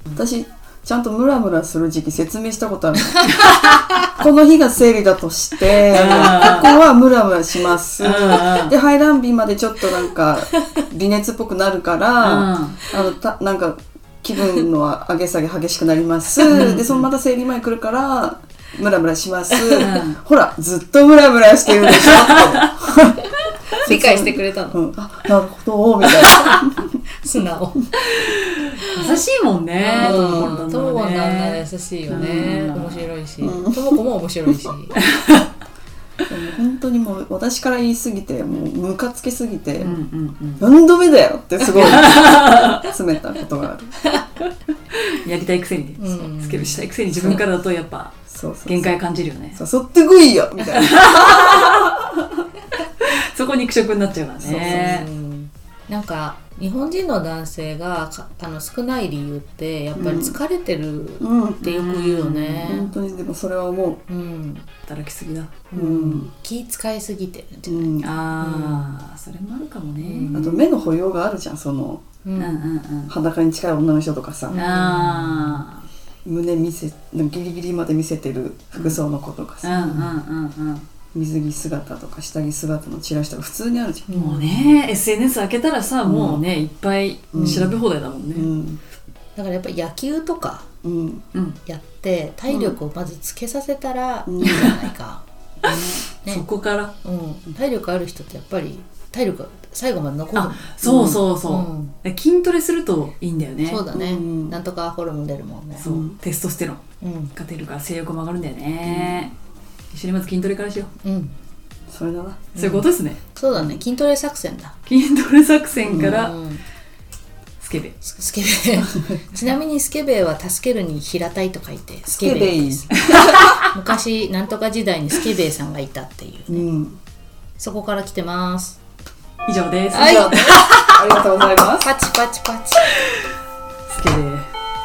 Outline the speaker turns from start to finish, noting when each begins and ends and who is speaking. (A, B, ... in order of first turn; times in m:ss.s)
0:00.1-0:03.4 A
0:03.3-0:03.9 B
0:03.6-0:04.1 C
0:04.0-0:26.9 A
0:05.8-0:06.8 B
0:08.0-0:08.8 B
0:12.2-0:12.8 B
0:16.5-0:17.1 B
0:19.8-0:20.2 B
0:22.2-0:22.6 B
0:23.8-0:24.8 C
0:26.2-0:26.6 B
0:27.1-0:28.0 C
0:28.1-0:33.1 B
0:28.8-0:29.2 C
0:29.8-0:35.0 C
0:30.0-0:30.6 A
0:32.1-0:32.5 A
0:33.4-0:34.0 A
0:36.3-0:40.0 A
0:39.8-0:40.7 B
0:40.6-0:44.0 A
0:41.7-0:42.9 B
0:44.9-0:49.6 B
0:46.0-0:47.4 C
0:47.2-0:47.4 A
0:48.3-0:49.0 A
0:49.5-0:52.0 A
0:50.7-0:52.1 B
0:53.0-0:55.1 B
0:54.4-0:55.0 A
0:54.4-1:03.0 C
1:00.0-1:00.4 A
1:01.2-1:01.6 A
1:01.6-1:02.8 B
1:02.7-1:04.0 A
1:04.1-1:04.7 C
1:04.9-1:05.6 B
1:05.7-1:09.0 C
1:05.8-1:06.3 A
1:07.7-1:08.1 A
1:08.0-1:10.4 B
1:10.0-1:10.6 C
1:10.3-1:12.0 A
1:12.2-1:12.7 C
1:12.4-1:13.1 B
1:13.1-1:14.6 A
1:14.5-1:15.7 C
1:14.5-1:15.8 B
1:16.2-1:19.8 A
1:19.6-1:20.9 B
1:19.7-1:20.1 C
1:21.1-1:24.1 A
1:24.1-1:24.7 C
1:24.1-1:28.5 B
1:26.0-1:26.4 A
1:27.3-1:27.8 A
1:27.4-1:27.8 C
1:28.3-1:28.8 A
1:29.4-1:30.7 C
1:30.8-1:31.2 A
1:31.7-1:35.2 C
1:32.5-1:32.8 A
1:34.3-1:34.8 A
1:35.6-1:36.9 B
1:37.0-1:40.7 C
1:40.3-1:43.9 B
1:40.8-1:41.2 A
1:41.5-1:42.0 C
1:43.6-1:45.9 C
1:43.9-1:44.6 A
1:45.8-1:46.8 B
1:45.8-1:46.2 A
1:47.0-1:47.3 C
1:47.3-1:49.3 B
1:48.8-1:49.3 A
1:49.9-1:50.9 B
1:51.0-1:51.4 C
1:51.9-1:52.5 A
1:52.6-1:53.2 B
1:52.6-1:54.8 C
1:53.5-1:53.8 A
1:54.9-1:56.4 B
1:55.9-1:56.2 A
1:55.9-1:56.6 C
1:57.6-1:58.0 B
1:58.0-2:06.7 C
2:02.1-2:03.4 A
2:03.1-2:03.7 B
2:06.5-2:07.0 A
2:07.6-2:08.8 C
2:09.5-2:11.1 B
2:09.9-2:10.7 C
2:09.9-2:11.9 A
2:11.8-2:12.9 C
2:13.9-2:14.5 B